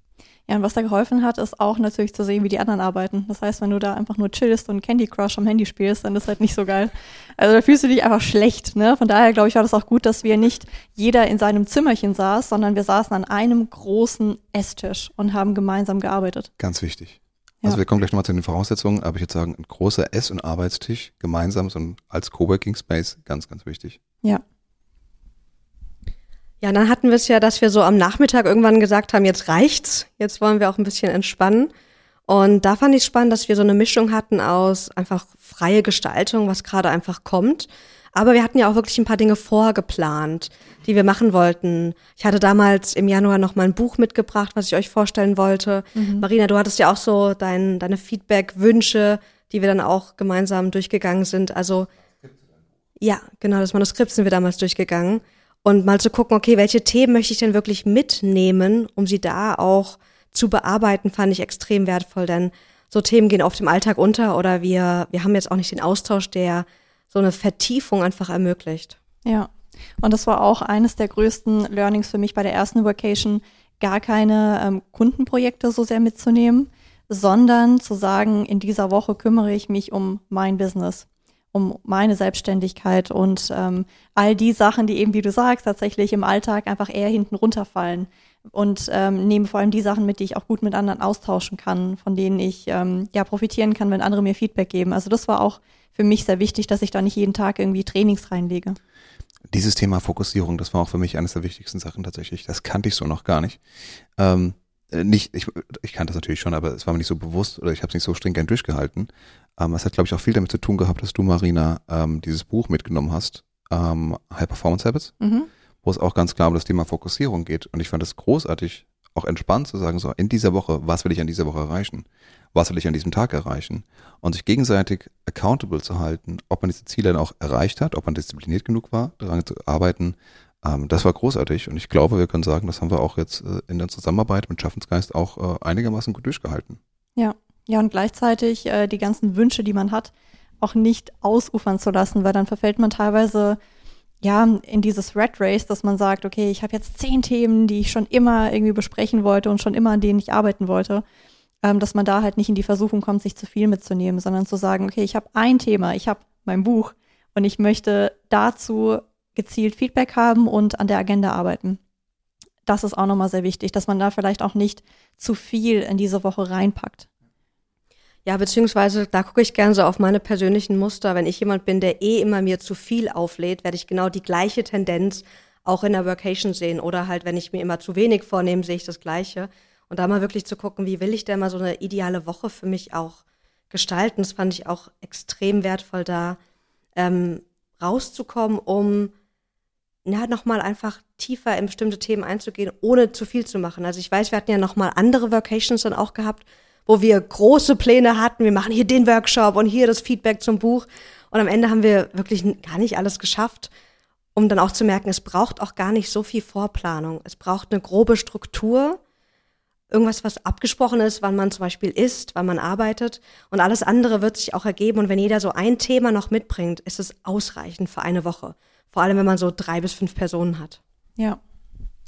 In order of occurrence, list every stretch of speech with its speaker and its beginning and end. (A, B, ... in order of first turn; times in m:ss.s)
0:00.5-0:16.5 A
0:16.6-0:24.0 B
0:26.6-0:31.7 C
0:32.3-0:51.9 C
0:45.9-0:46.2 A
0:53.0-1:09.0 C
1:09.2-1:38.8 A
1:39.5-1:43.6 B
1:44.2-1:55.1 B
1:55.2-1:55.5 A
1:55.8-2:16.8 B
2:17.2-2:23.6 A
2:24.2-2:31.0 A
2:31.6-2:41.8 A
2:42.6-2:47.1 A
2:48.2-3:03.2 C
3:03.7-3:06.4 C
3:07.0-3:09.1 C
3:10.0-3:23.7 C
3:24.3-3:29.0 C
3:29.9-3:40.8 C